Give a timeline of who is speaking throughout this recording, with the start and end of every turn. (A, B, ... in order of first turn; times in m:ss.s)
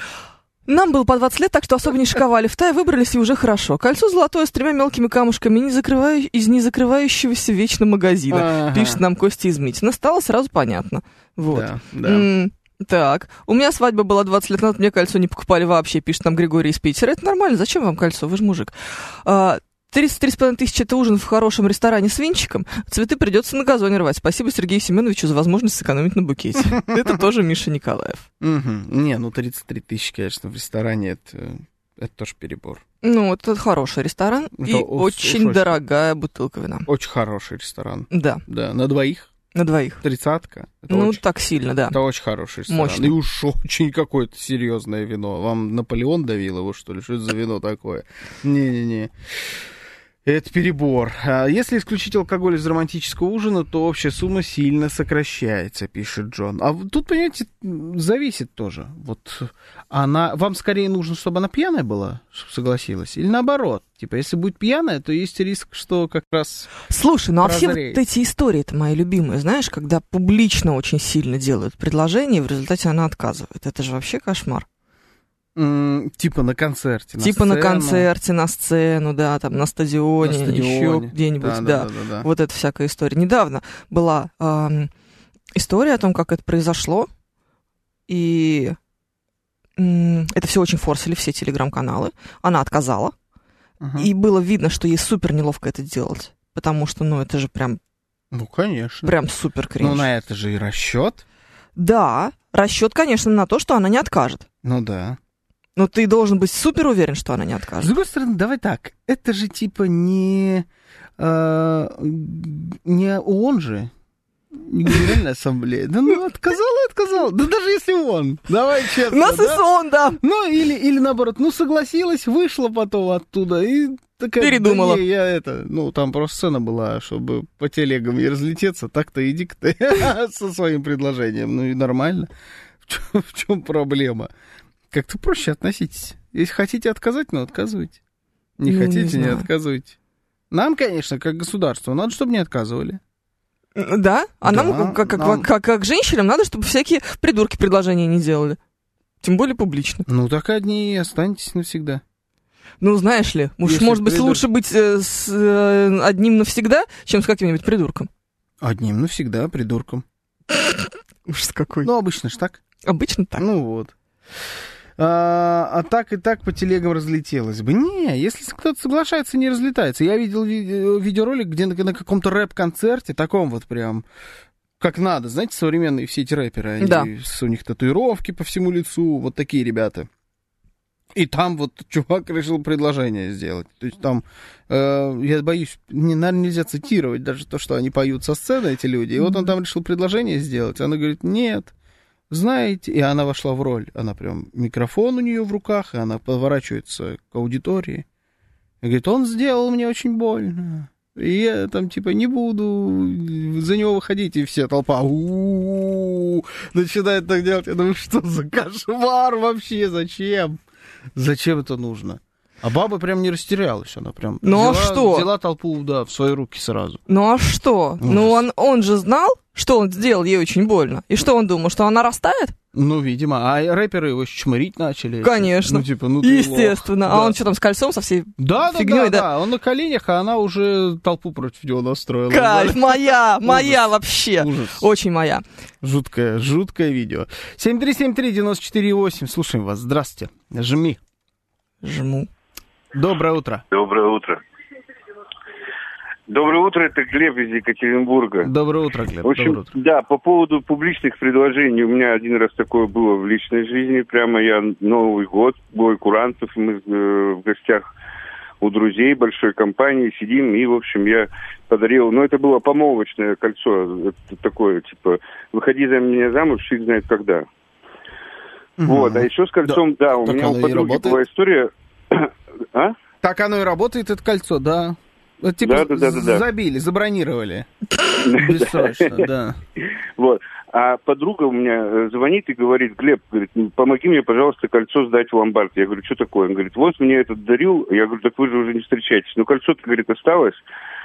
0:00.7-0:28.2 A
0:08.3-0:09.0 B
0:11.5-0:12.3 B
0:26.7-0:27.2 B
0:28.4-0:32.8 B
0:33.0-0:36.9 A
0:34.6-0:35.8 B
0:36.9-0:39.3 B
0:38.1-0:38.4 A
0:39.5-0:40.0 A
0:40.0-0:41.2 B
0:40.9-0:42.0 A
0:41.9-0:49.6 B
0:42.7-0:43.1 A
0:50.2-1:06.7 B
1:06.8-1:14.6 A
1:07.4-1:08.0 B
1:15.6-1:18.1 B
1:17.2-1:24.9 A
1:20.2-1:22.3 B
1:25.5-1:27.1 A
1:28.1-1:28.8 A
1:29.8-1:33.1 A
1:33.8-1:34.1 B
1:34.0-1:37.8 A
1:38.3-1:39.1 B
1:39.0-1:40.1 A
1:39.8-1:41.2 B
1:41.8-1:44.4 A
1:44.6-1:45.2 B
1:45.8-1:47.9 A
1:47.8-1:50.7 B
1:51.2-1:53.9 B
1:54.5-1:59.6 B
1:59.1-2:00.2 A
2:00.2-2:12.3 B
2:04.4-2:05.0 A
2:12.8-2:14.3 B
2:14.9-2:18.0 B
2:18.6-2:19.9 B
2:18.6-2:19.5 A
2:20.5-2:23.0 B
2:23.8-2:28.6 A
2:24.4-2:25.4 B
2:29.2-2:30.0 A
2:30.1-2:32.0 B
2:32.8-2:38.1 A
2:33.6-2:34.4 B
2:38.6-2:40.0 B
2:40.5-2:41.9 A
2:41.8-2:42.6 B
2:42.8-2:43.4 A
2:43.4-2:43.9 B
2:45.0-2:54.0 B
2:54.8-3:00.1 B
2:56.8-2:57.1 A
3:01.1-3:11.7 B
3:09.2-3:09.5 A
3:12.3-3:18.0 B
3:18.8-3:30.6 B
3:31.1-3:37.0 B
3:34.4-3:35.3 A
3:37.1-3:42.5 A
3:38.0-3:38.4 B
3:42.7-3:47.4 B
3:45.2-3:49.3 A
3:48.4-3:54.8 B
3:52.3-3:55.4 A
3:55.8-4:01.0 B
4:01.8-4:02.3 A
4:02.9-4:03.6 B
4:03.7-4:04.4 C
4:06.3-4:08.5 C
4:08.4-4:09.7 B
4:09.2-4:17.8 C
4:18.6-4:27.4 C
4:28.8-4:31.2 B
4:28.8-4:33.0 C
4:33.2-4:37.7 B
4:35.6-4:36.4 C
4:38.2-4:39.2 C
4:38.2-4:39.6 B
4:40.2-4:50.6 C